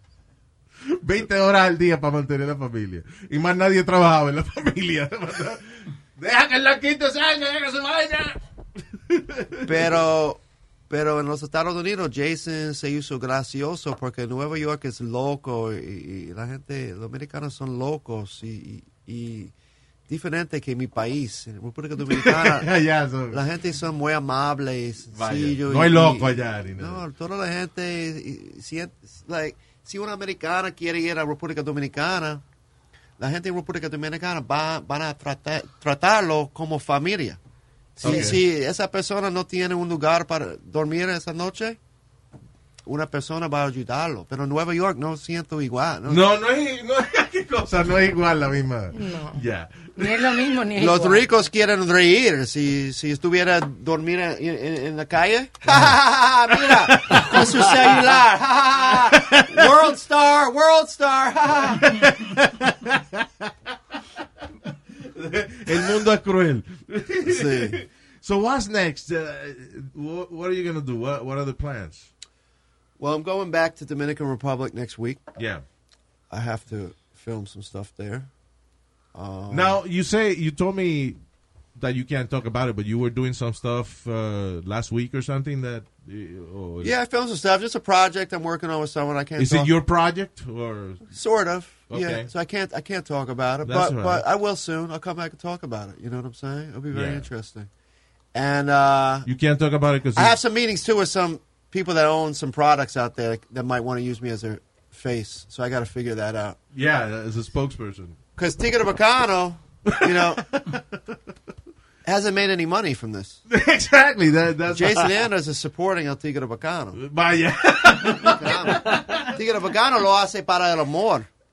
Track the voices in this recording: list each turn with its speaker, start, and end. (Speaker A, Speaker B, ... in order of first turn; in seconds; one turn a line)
Speaker A: 0.8-10.0
Speaker B: 9.6-19.5
Speaker B: 20.1-22.7
Speaker A: 22.0-23.4
Speaker B: 23.3-32.4
Speaker A: 25.1-27.0
Speaker B: 33.2-37.4
Speaker B: 38.0-41.8
Speaker A: 38.0-38.4
Speaker C: 38.0-38.3
Speaker B: 42.9-46.2
Speaker A: 46.1-50.3
Speaker C: 48.9-49.4
Speaker C: 50.0-51.2
Speaker B: 50.8-61.9
Speaker A: 55.6-58.2
Speaker A: 58.8-59.9
Speaker A: 61.5-63.9
Speaker A: 64.6-72.1
Speaker B: 67.2-67.8
Speaker B: 73.0-75.2
Speaker A: 75.4-75.6
Speaker B: 76.3-78.3
Speaker B: 79.1-79.8
Speaker A: 79.5-81.2
Speaker A: 81.8-86.9
Speaker B: 86.8-89.7
Speaker A: 89.4-91.0
Speaker B: 91.1-97.7
Speaker A: 91.9-92.3
Speaker A: 93.6-94.2
Speaker A: 96.9-97.3
Speaker B: 98.3-99.3
Speaker A: 99.2-100.4
Speaker B: 100.1-106.5
Speaker A: 106.7-108.2
Speaker B: 108.4-110.5
Speaker A: 109.8-111.2
Speaker B: 112.0-113.4
Speaker A: 113.5-115.1
Speaker B: 114.7-117.0
Speaker A: 116.9-119.3
Speaker B: 118.2-121.3